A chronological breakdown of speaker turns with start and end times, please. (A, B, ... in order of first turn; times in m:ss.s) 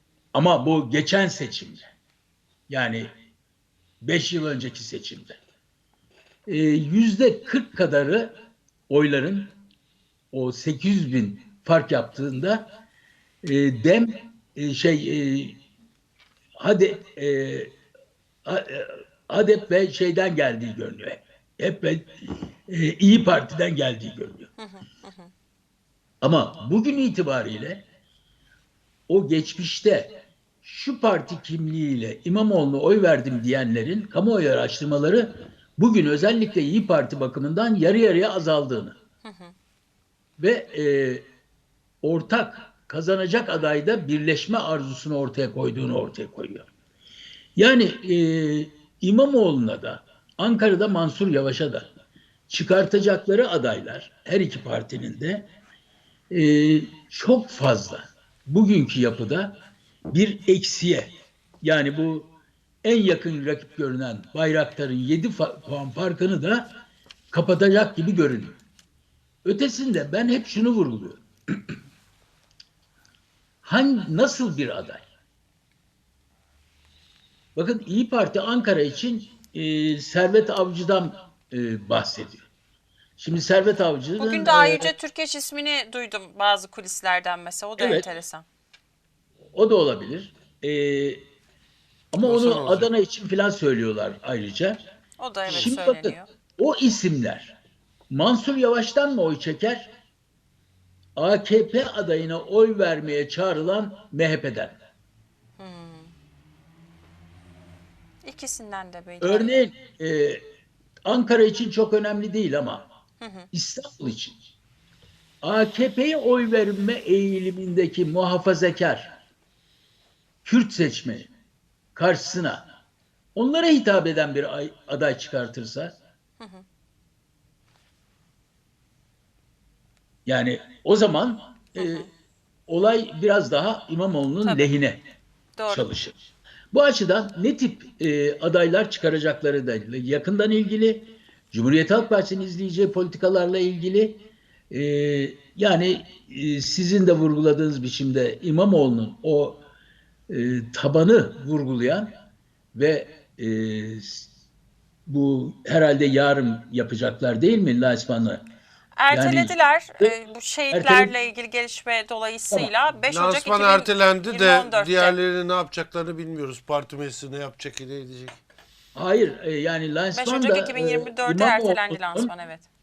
0:00.3-0:01.9 A
0:02.7-0:03.1 A
0:04.0-0:05.4 A
0:06.5-0:08.3 A
0:08.9-0:09.6 A
0:10.3-0:12.7 A
0:13.4-0:15.6 A
0:16.6-0:17.7 A
0:18.4-0:24.5 A
0:24.6-0:25.3 B
0:26.2-0:27.8 A
0:29.1-0:39.0 A
0:39.2-0:39.5 B
0:40.4-0:41.2 A
0:42.0-0:46.7 A
0:47.6-0:51.9 A
0:52.5-0:55.5 A
0:56.3-0:59.6 A
1:00.1-1:02.3 A
1:02.8-1:06.7 A
1:07.3-1:08.6 A
1:09.4-1:11.8 A
1:13.6-1:15.1 A
1:17.6-1:22.5 A
1:23.2-1:24.9 A
1:24.2-1:28.4 B
1:27.8-1:28.1 A
1:29.5-1:31.2 A
1:32.1-1:34.8 A
1:32.2-1:32.9 C
1:35.2-1:36.3 B
1:35.5-1:37.6 A
1:38.1-1:39.9 A
1:41.2-1:44.8 A
1:45.6-1:46.1 B
1:48.2-1:49.7 B
1:49.2-1:50.4 A
1:51.1-1:52.9 A
1:53.2-1:53.5 B
1:53.5-1:54.4 A
1:55.4-1:59.2 A
2:00.4-2:01.3 A
2:02.0-2:02.6 A
2:03.4-2:05.9 A
2:06.4-2:06.6 B
2:10.3-2:12.1 A
2:11.8-2:12.1 B
2:12.7-2:15.0 A
2:14.4-2:14.7 B
2:15.6-2:15.9 B
2:15.7-2:16.2 A
2:16.7-2:29.6 A
2:30.3-2:32.2 A
2:32.7-2:34.3 A
2:35.1-2:38.4 A
2:39.0-2:45.2 B
2:39.1-2:40.2 A
2:40.7-2:41.1 A
2:43.1-2:48.4 C
2:49.0-2:52.3 A
2:50.1-2:52.7 B